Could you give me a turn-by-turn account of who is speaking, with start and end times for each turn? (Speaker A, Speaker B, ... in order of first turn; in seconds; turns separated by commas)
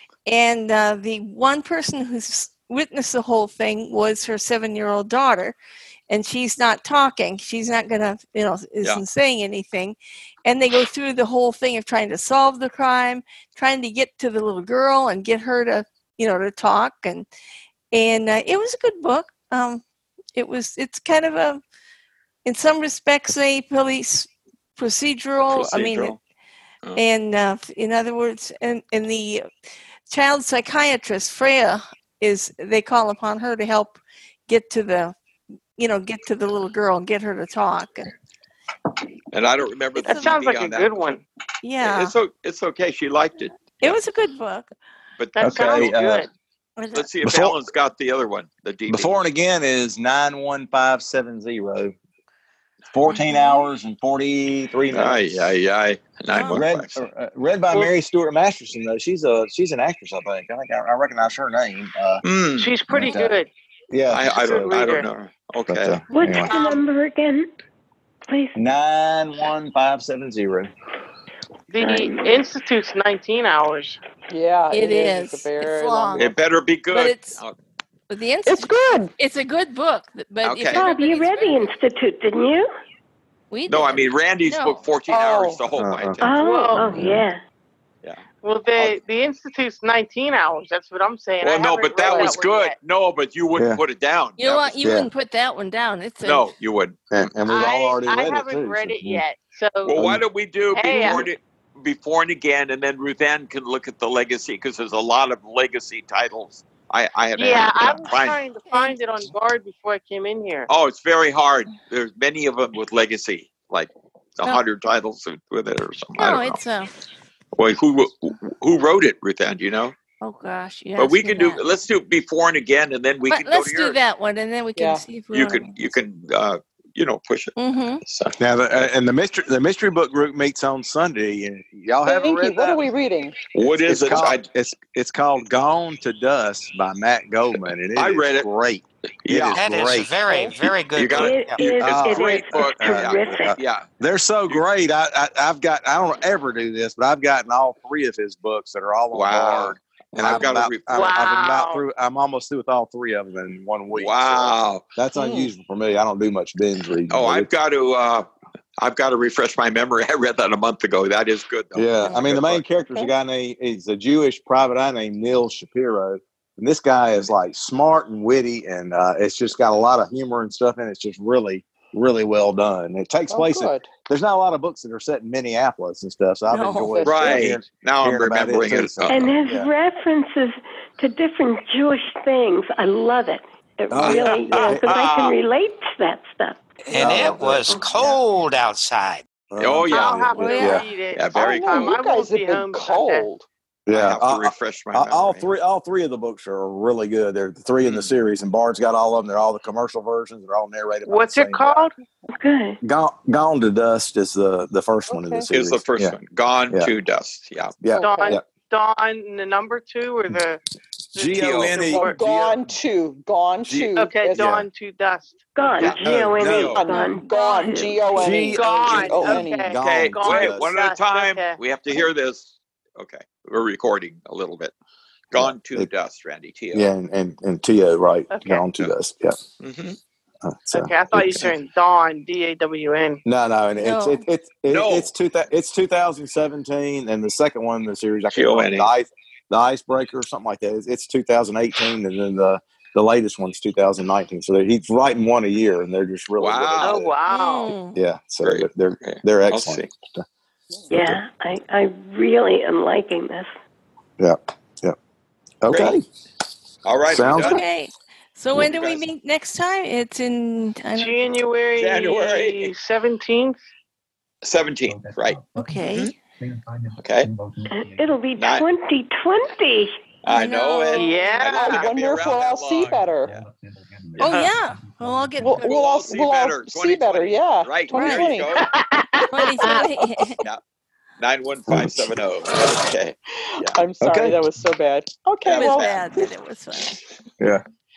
Speaker A: 0.3-5.6, Speaker A: 6.1-17.3, Speaker A: 17.9-19.8, Speaker A: 20.4-21.6, Speaker A: 22.4-26.2, Speaker B: 25.5-26.2, Speaker A: 27.0-29.5, Speaker A: 30.1-35.1, Speaker A: 35.8-38.1, Speaker B: 39.3-41.2, Speaker C: 40.0-41.2, Speaker A: 40.0-40.3, Speaker A: 41.6-42.1, Speaker B: 41.8-44.0, Speaker A: 43.8-44.7, Speaker B: 45.2-46.2, Speaker C: 45.4-46.3, Speaker D: 45.4-46.3, Speaker A: 46.8-47.1, Speaker B: 46.9-49.2, Speaker D: 47.2-47.6, Speaker D: 48.9-52.0, Speaker D: 52.9-55.5, Speaker A: 53.1-53.6, Speaker B: 54.9-57.0, Speaker A: 56.3-56.6, Speaker D: 56.5-62.2, Speaker B: 62.2-62.8, Speaker C: 62.6-63.5, Speaker D: 62.9-63.4, Speaker D: 63.9-64.3, Speaker B: 64.1-66.0, Speaker C: 64.2-65.1, Speaker D: 65.7-66.6, Speaker E: 66.1-67.5, Speaker E: 68.3-68.6, Speaker D: 68.5-70.7, Speaker C: 71.7-74.0, Speaker E: 71.8-72.4, Speaker F: 74.3-76.3, Speaker A: 74.7-76.3, Speaker B: 76.2-77.5, Speaker A: 76.9-77.4, Speaker A: 78.1-81.7, Speaker F: 78.5-79.1, Speaker B: 80.4-80.8, Speaker E: 80.7-82.7, Speaker A: 83.5-84.9, Speaker B: 83.7-86.4, Speaker F: 85.1-85.6, Speaker D: 85.8-86.2, Speaker E: 86.2-87.4, Speaker C: 86.4-86.9, Speaker D: 86.8-87.2, Speaker B: 88.0-89.0, Speaker C: 88.4-92.8, Speaker B: 91.4-94.8, Speaker F: 92.1-92.3, Speaker A: 94.4-96.5, Speaker D: 94.8-95.1, Speaker B: 96.2-97.3, Speaker D: 97.1-99.2, Speaker C: 97.5-100.0, Speaker B: 99.9-108.4, Speaker D: 99.9-100.2, Speaker C: 100.7-101.3, Speaker C: 107.4-110.7, Speaker A: 108.7-109.0, Speaker B: 110.7-116.6, Speaker A: 116.2-116.9, Speaker B: 117.5-120.0, Speaker A: 120.2-121.6, Speaker B: 121.0-124.0, Speaker A: 123.3-125.8, Speaker F: 124.8-125.0, Speaker B: 125.3-128.4, Speaker A: 127.6-128.0, Speaker D: 128.4-132.9, Speaker F: 132.1-133.4, Speaker B: 133.5-134.4, Speaker D: 133.6-140.1, Speaker B: 137.9-138.5, Speaker B: 139.2-139.6, Speaker G: 139.5-141.6, Speaker F: 140.3-140.5, Speaker B: 140.9-143.9, Speaker E: 141.2-143.6, Speaker D: 141.8-157.5, Speaker B: 149.1-151.2, Speaker C: 150.9-151.8, Speaker B: 153.9-154.8, Speaker F: 155.2-155.5, Speaker B: 157.1-158.3, Speaker B: 158.8-162.6, Speaker D: 161.8-179.7, Speaker F: 173.3-173.9, Speaker A: 176.5-177.1, Speaker F: 176.9-177.5, Speaker B: 177.0-179.2, Speaker E: 179.1-186.6, Speaker D: 183.9-184.8, Speaker B: 184.0-185.3, Speaker G: 186.9-189.2, Speaker D: 186.9-187.9, Speaker D: 189.5-190.8, Speaker B: 189.6-190.6, Speaker C: 189.9-193.3, Speaker A: 190.3-190.8, Speaker B: 191.1-192.0, Speaker F: 191.4-193.4, Speaker D: 193.9-201.9, Speaker B: 193.9-195.5, Speaker B: 197.8-198.2, Speaker C: 201.1-201.9, Speaker E: 202.3-202.8, Speaker D: 202.8-206.2, Speaker F: 205.1-205.5, Speaker B: 205.5-207.8, Speaker D: 207.8-208.4, Speaker F: 207.9-208.4, Speaker C: 208.0-210.6, Speaker C: 211.2-212.2, Speaker D: 211.2-212.7, Speaker B: 211.4-211.8, Speaker F: 211.9-214.5, Speaker D: 213.7-214.7, Speaker C: 214.0-216.0, Speaker E: 215.6-218.0, Speaker B: 215.8-216.8, Speaker D: 216.0-216.8, Speaker F: 216.7-219.7, Speaker A: 216.9-218.0, Speaker D: 218.1-220.7, Speaker C: 218.4-221.6, Speaker B: 219.8-224.7, Speaker B: 225.3-226.9, Speaker D: 225.3-225.9, Speaker D: 226.7-229.4, Speaker C: 228.3-228.7, Speaker B: 229.6-230.0, Speaker D: 230.4-231.3, Speaker C: 230.7-233.2, Speaker B: 231.1-231.5, Speaker D: 233.2-247.1, Speaker A: 233.8-234.2, Speaker B: 234.7-235.1, Speaker B: 238.3-238.9, Speaker B: 246.4-247.1, Speaker C: 246.8-247.7, Speaker A: 247.3-248.0, Speaker D: 247.9-250.3, Speaker B: 248.4-249.9, Speaker E: 250.9-253.5, Speaker D: 250.9-251.2, Speaker D: 254.2-255.0, Speaker D: 255.6-256.0, Speaker B: 255.7-256.0, Speaker B: 256.9-257.6, Speaker D: 257.1-257.6, Speaker A: 257.4-261.1, Speaker B: 258.6-259.1, Speaker C: 261.0-263.6, Speaker B: 261.8-262.7, Speaker B: 264.4-266.1, Speaker A: 265.6-266.1, Speaker B: 267.0-267.3, Speaker D: 267.5-268.0, Speaker E: 267.7-269.9, Speaker B: 268.4-268.6, Speaker B: 270.2-273.4, Speaker A: 270.3-271.5, Speaker C: 270.9-271.9, Speaker F: 271.6-273.3, Speaker D: 274.0-274.4, Speaker B: 274.1-274.5, Speaker A: 274.2-275.8, Speaker F: 275.4-278.5, Speaker B: 275.6-278.7, Speaker A: 277.9-278.4, Speaker C: 278.5-280.1, Speaker A: 279.3-280.4, Speaker B: 281.2-283.8, Speaker D: 281.7-282.2, Speaker F: 283.6-286.3, Speaker D: 284.0-284.4, Speaker B: 285.4-286.2, Speaker A: 285.5-287.0